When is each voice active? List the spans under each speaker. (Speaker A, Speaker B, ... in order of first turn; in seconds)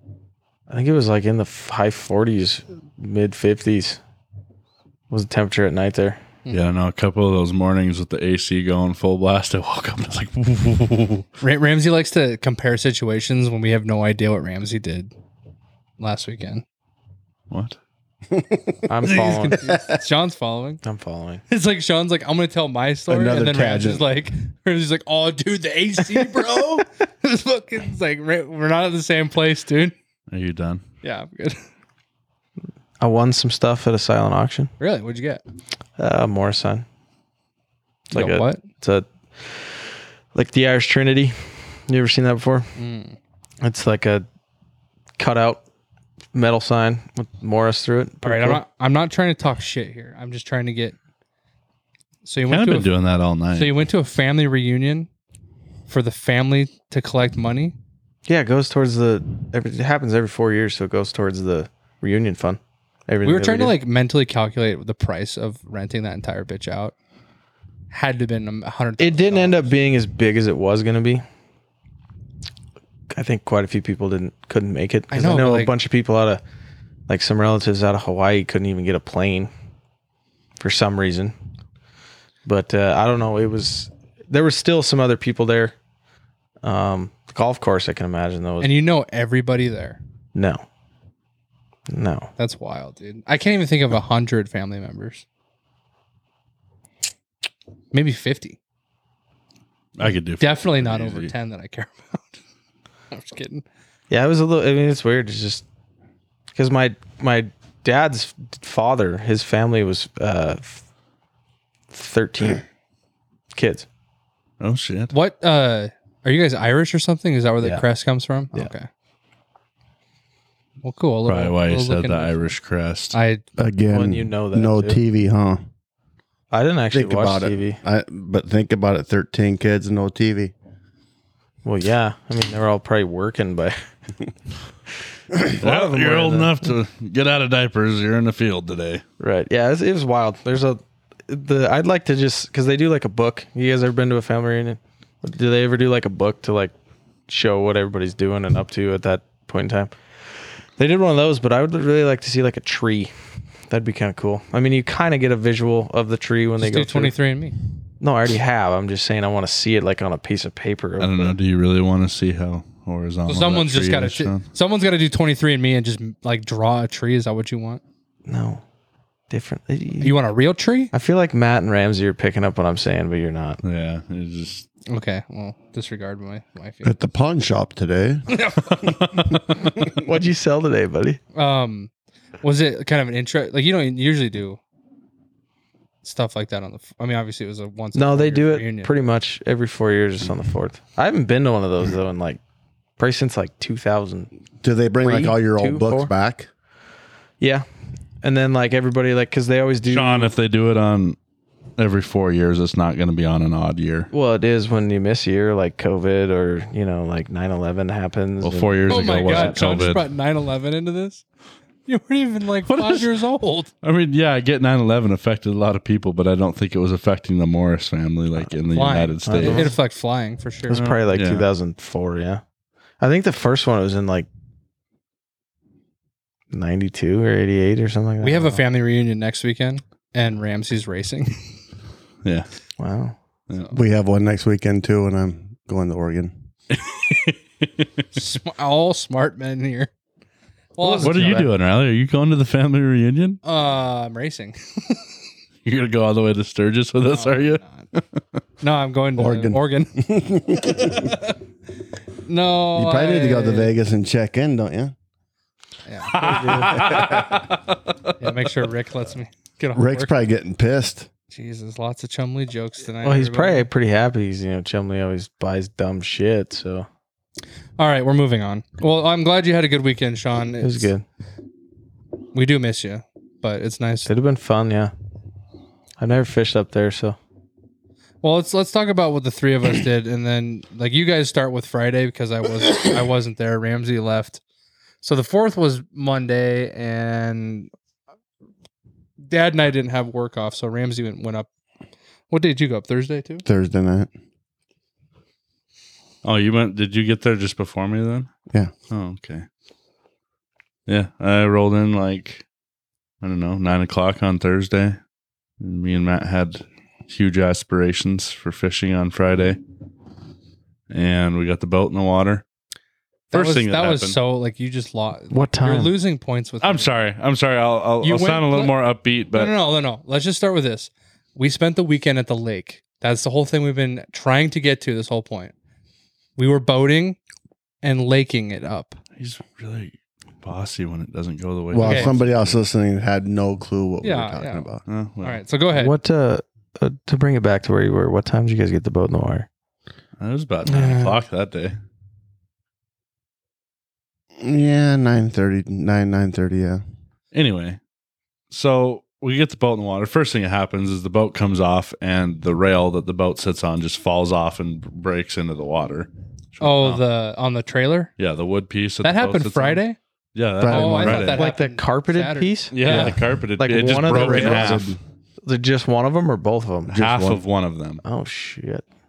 Speaker A: 0.7-4.0, 5.1-6.2, 18.9-19.6, 20.8-21.4, 33.0-34.7, 36.0-36.8, 38.1-42.7, 43.6-44.2, 45.2-45.6, 46.3-48.6, 58.2-63.7, 69.0-71.2, 73.1-76.4, 77.1-79.5, 80.6-81.3, 82.4-85.7, 86.6-88.7, 90.3-90.6, 91.9-92.3, 104.1-105.6, 106.5-110.8, 111.9-112.6, 113.5-113.8, 123.9-125.0, 126.5-127.8, 131.6-133.8, 135.3-136.6, 139.2-146.7, 147.3-149.9, 150.8-153.1, 153.7-157.1, 158.0-161.3, 168.3-168.6, 169.3-170.1, 170.9-173.6, 179.8-181.2, 187.9-192.4, 193.0-194.3, 195.0-196.1, 197.4-197.7, 198.2-200.3, 204.1-209.9, 219.2-219.7, 220.7-222.4, 223.0-224.3, 226.5-228.6, 232.8-233.2, 256.1-257.0, 263.0-266.9, 270.6-271.0, 274.1-274.9, 276.0-277.2, 315.3-315.9, 335.7-339.5, 340.6-341.1, 361.0-364.8, 365.4-367.0, 368.0-368.8
Speaker B: 6.5-11.2, 17.5-17.8, 30.3-30.8, 52.5-53.7, 100.0-101.3, 114.6-115.1, 121.2-123.1, 135.6-139.0, 161.0-164.4, 173.6-174.7, 199.8-201.2, 201.8-204.1, 208.4-210.0, 212.7-213.1, 213.8-219.7, 220.7-221.4, 236.7-237.9, 241.0-243.4, 245.6-248.0, 256.1-257.8, 296.2-298.3, 298.9-299.4, 300.9-302.4, 303.2-305.0, 305.6-309.6, 310.9-312.4, 313.3-314.2, 316.6-319.5, 329.2-332.6, 334.9-335.4, 340.2-341.7, 347.3-347.8, 348.5-357.0, 358.2-359.8, 360.3-361.4, 362.7-364.9, 366.9-368.0
Speaker C: 11.4-15.1, 16.0-16.6, 19.0-20.8, 21.5-29.9, 31.0-31.6, 34.8-35.4, 38.1-38.6, 42.8-43.1, 48.2-51.0, 52.2-52.9, 53.5-55.1, 55.9-57.8, 63.2-66.9, 67.9-69.7, 75.1-75.7, 88.6-90.0, 92.4-95.2, 97.9-98.6, 100.4-102.3, 103.1-103.6, 115.1-118.9, 120.8-122.5, 123.1-123.4, 156.6-157.6, 163.3-167.8, 170.0-170.9, 174.9-176.9, 178.3-179.2, 181.3-181.9, 182.4-184.6, 186.0-188.9, 208.9-211.2, 211.8-213.7, 218.7-220.8, 228.2-231.5, 238.1-239.9, 240.8-241.5, 243.4-245.0, 247.0-247.8, 248.6-249.9, 250.7-251.3, 252.2-253.7, 255.8-256.1, 258.2-260.1, 261.3-263.7, 267.8-270.9, 272.3-274.1, 278.2-284.4, 285.0-287.7, 289.3-291.5, 292.3-293.4, 313.3-316.9, 318.0-318.7, 319.3-325.5, 326.4-327.2, 327.8-329.0, 331.8-332.1, 334.0-334.7, 335.2-335.9, 356.6-358.1, 359.0-360.0, 360.7-363.1, 364.1-364.8
Speaker D: 18.3-20.0, 23.1-24.1, 123.6-125.7, 126.9-130.5, 176.8-178.5, 194.6-196.5, 233.7-236.3, 249.2-251.2, 252.7-254.9, 256.7-257.4, 259.7-261.1, 293.4-294.1, 331.7-334.8, 344.4-346.8, 360.6-361.3, 364.1-365.0, 367.0-367.4